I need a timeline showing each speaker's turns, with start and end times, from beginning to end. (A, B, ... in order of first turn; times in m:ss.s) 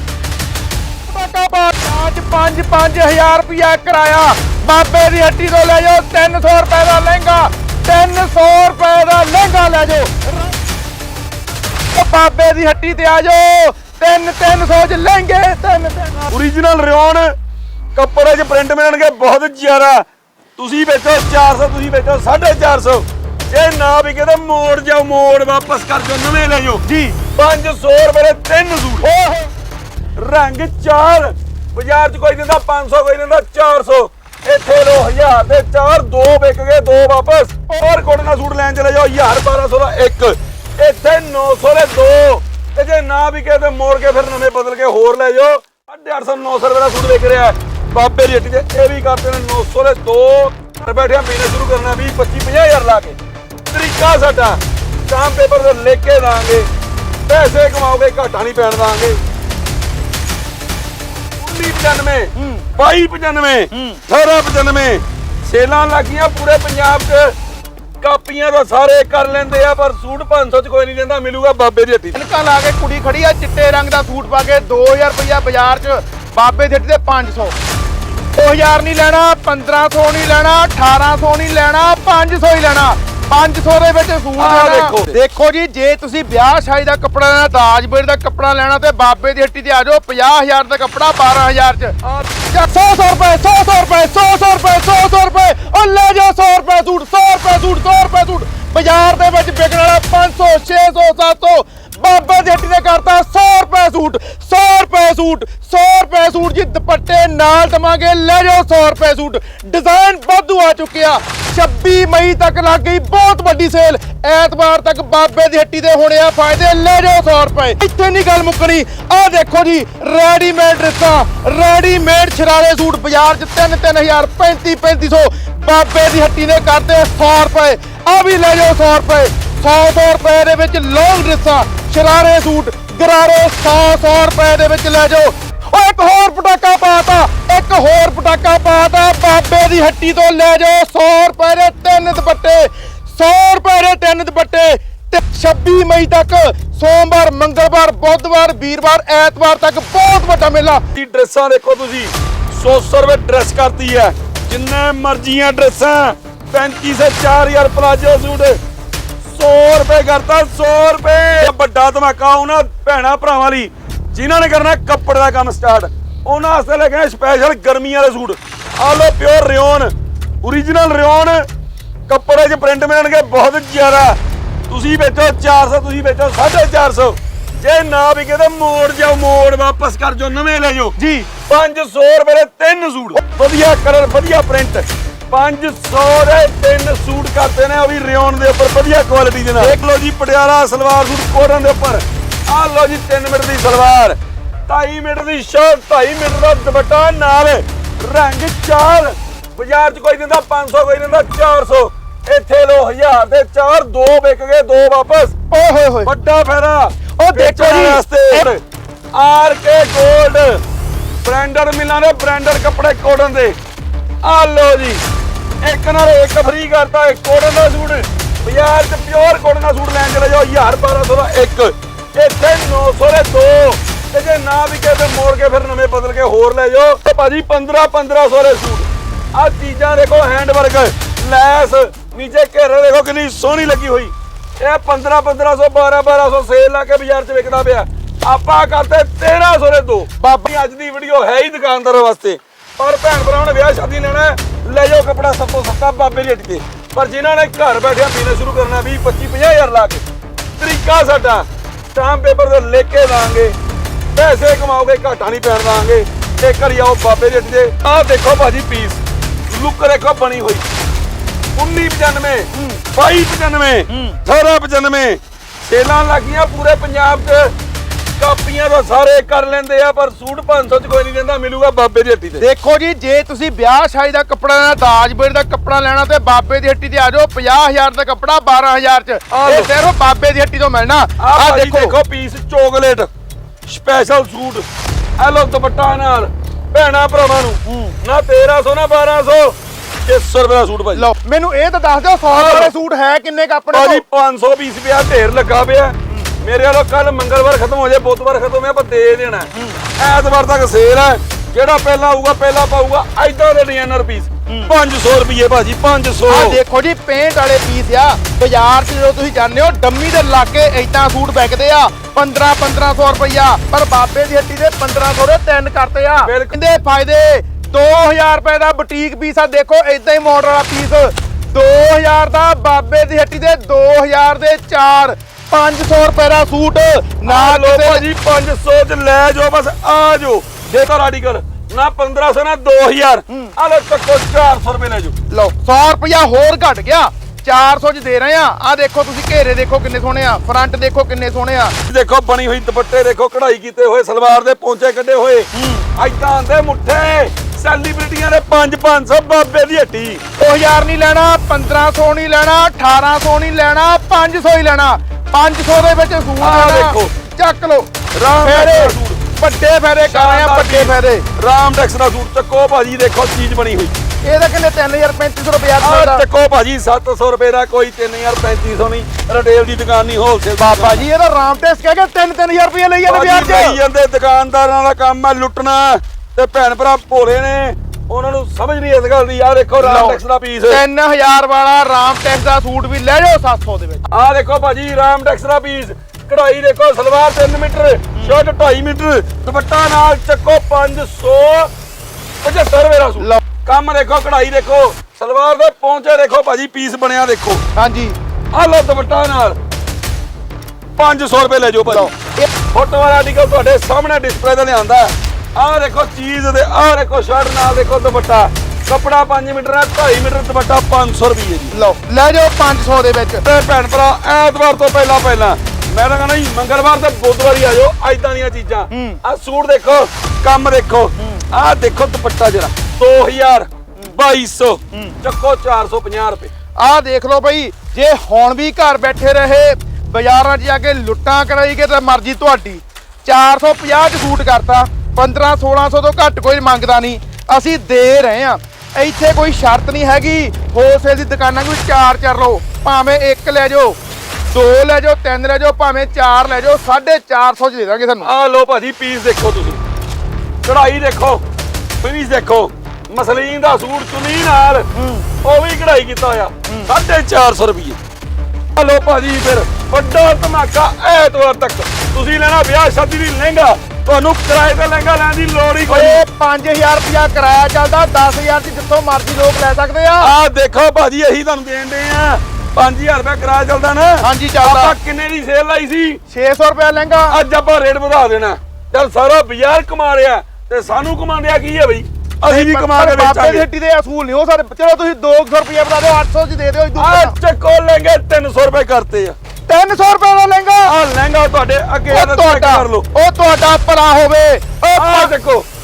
0:01.1-0:10.6 A
0:11.9-0:16.4 A
0:16.3-0:17.3 B
0:18.0-0:20.1 B
0:20.6-0:26.8 B
0:26.8-0:27.2 A
0:27.4-0:29.1 B
0:29.0-0:29.5 A
0:30.2-0:53.2 B
0:53.7-0:56.7 B
0:57.3-0:59.2 B
1:01.4-1:07.4 B
1:02.4-1:02.6 A
1:03.7-1:04.0 A
1:08.0-1:12.2 B
1:12.1-1:17.6 A
1:18.4-1:32.0 A
1:24.4-1:25.2 B
1:32.0-1:32.3 B
1:32.5-2:30.8 A
2:30.9-2:38.6 B
2:39.2-2:49.9 B
2:50.4-2:51.5 B
2:52.1-2:54.2 B
2:54.7-3:01.0 B
3:01.0-3:01.3 A
3:01.5-3:25.4 B
3:25.5-3:26.1 A
3:26.0-3:28.6 B
3:27.2-3:28.5 A
3:29.1-3:30.6 B
3:31.2-3:33.6 B
3:34.2-3:35.0 B
3:35.6-4:10.0 B
4:00.2-4:00.5 A
4:10.6-4:13.6 B
4:14.2-4:20.6 B
4:21.6-4:27.5 B
4:22.5-4:22.8 A
4:23.9-4:24.2 A
4:28.2-4:32.4 B
4:32.4-4:42.0 A
4:39.3-4:39.7 B
4:41.2-4:43.1 B
4:43.7-4:44.6 B
4:45.2-4:51.1 B
4:47.7-4:48.0 A
4:51.0-4:54.0 A
4:52.3-4:52.7 B
4:53.7-5:06.6 B
4:59.5-4:59.8 A
5:06.3-5:28.0 A
5:16.2-5:16.6 B
5:27.3-5:35.2 B
5:33.3-5:33.5 A
5:35.3-5:41.8 A
5:41.9-5:50.2 B
5:45.5-5:45.9 A
5:50.4-5:57.9 A
5:56.4-5:57.1 B
5:58.2-5:59.2 B
5:58.4-6:01.3 A
6:00.1-6:04.0 B
6:04.2-6:06.2 A
6:05.8-6:11.1 B
6:10.6-6:13.8 A
6:13.1-6:20.8 B
6:19.8-6:24.0 A
6:24.1-6:31.7 B
6:32.4-6:37.6 B
6:37.8-6:38.2 A
6:38.5-6:39.6 B
6:41.0-6:42.1 B
6:41.9-6:42.5 A
6:42.7-6:51.7 B
6:51.7-6:53.4 A
6:53.4-7:06.5 B
6:58.9-6:59.2 A
7:06.8-7:24.0 A
7:24.5-7:28.3 A
7:28.2-7:29.8 B
7:30.6-7:31.4 B
7:32.0-7:34.9 B
7:34.9-7:35.3 A
7:35.4-7:38.0 B
7:38.7-7:46.2 B
7:45.9-7:50.3 A
7:50.2-7:56.2 B
7:54.2-7:55.0 A
7:56.3-7:57.4 A
7:57.3-8:03.7 B
8:02.5-8:07.4 A
8:07.0-8:09.4 B
8:09.7-8:10.9 A
8:10.8-8:13.1 B
8:12.1-8:15.3 A
8:15.0-8:15.7 B